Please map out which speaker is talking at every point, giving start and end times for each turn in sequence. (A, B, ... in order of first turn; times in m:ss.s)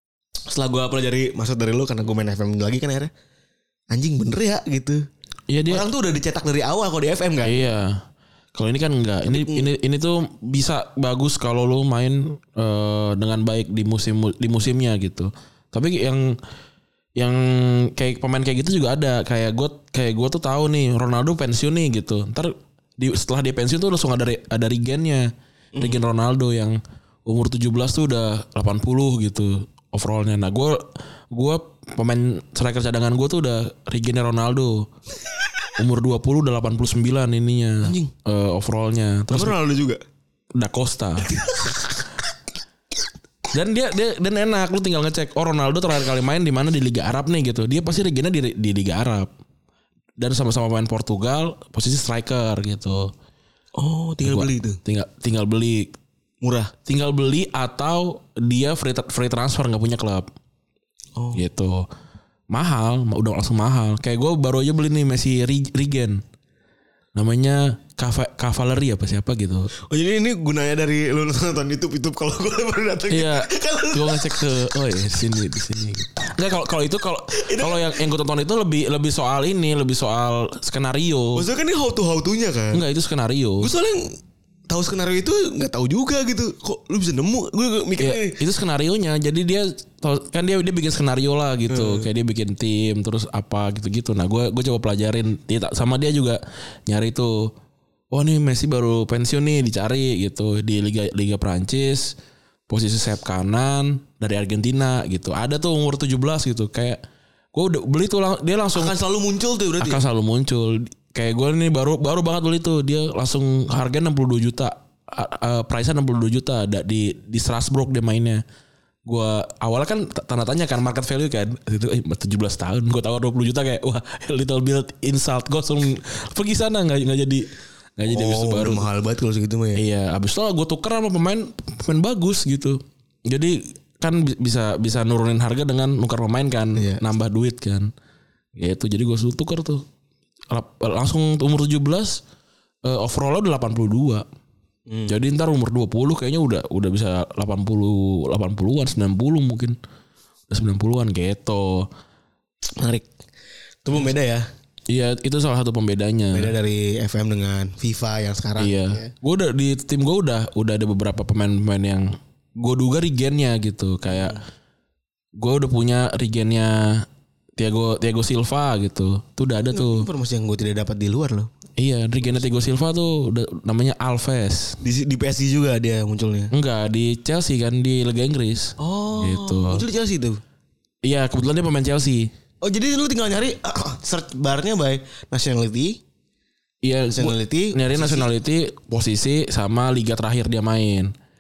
0:00.5-0:03.1 A
0:03.9-0:05.0 A
0:05.5-0:05.8 B
0:05.7-0:07.6 A
0:07.4-0:08.0 B
0:08.6-0:16.4 B
0:09.3-0:09.7 A
0:17.2-0:25.3 B
0:25.8-0:26.0 A
0:25.8-0:34.9 B
0:35.8-0:39.6 B
0:37.8-0:38.1 A
0:39.3-0:40.0 A
0:40.6-0:41.3 B
0:43.5-0:49.3 B
0:50.2-0:53.1 B
0:53.8-0:54.8 A
0:54.2-0:55.9 B
0:56.4-0:56.7 A
0:56.9-1:00.3 B
1:01.2-1:01.4 A
1:01.3-1:01.9 B
1:02.5-1:06.2 B
1:07.2-1:09.7 B
1:09.9-1:14.4 A
1:13.1-1:21.5 B
1:17.3-1:17.9 A
1:21.4-1:22.8 A
1:22.7-1:23.7 B
1:23.6-1:24.2 A
1:24.7-1:28.4 A
1:28.0-1:37.5 B
1:31.7-1:32.1 A
1:38.1-1:42.1 B
1:42.7-1:47.0 B
1:47.5-1:49.0 B
1:48.8-1:50.0 A
1:49.8-1:58.4 B
1:59.1-2:08.9 B
2:08.1-2:09.8 A
2:09.8-2:17.9 B
2:16.8-2:17.0 A
2:18.6-2:19.8 B
2:20.5-2:22.2 B
2:22.8-2:24.3 B
2:24.9-2:25.2 A
2:25.1-2:29.8 B
2:30.5-2:31.9 B
2:32.8-2:33.1 A
2:33.8-2:34.5 A
2:34.9-2:36.5 B
2:36.3-2:39.1 A
2:38.6-2:44.4 B
2:44.1-2:44.4 A
2:45.4-2:50.1 B
2:49.7-2:51.5 A
2:51.8-2:54.8 B
2:54.8-2:56.5 A
2:56.5-2:59.8 B
2:58.8-3:00.4 A
3:01.0-3:02.3 B
3:02.6-3:06.0 A
3:06.8-3:11.1 B
3:07.2-3:08.3 A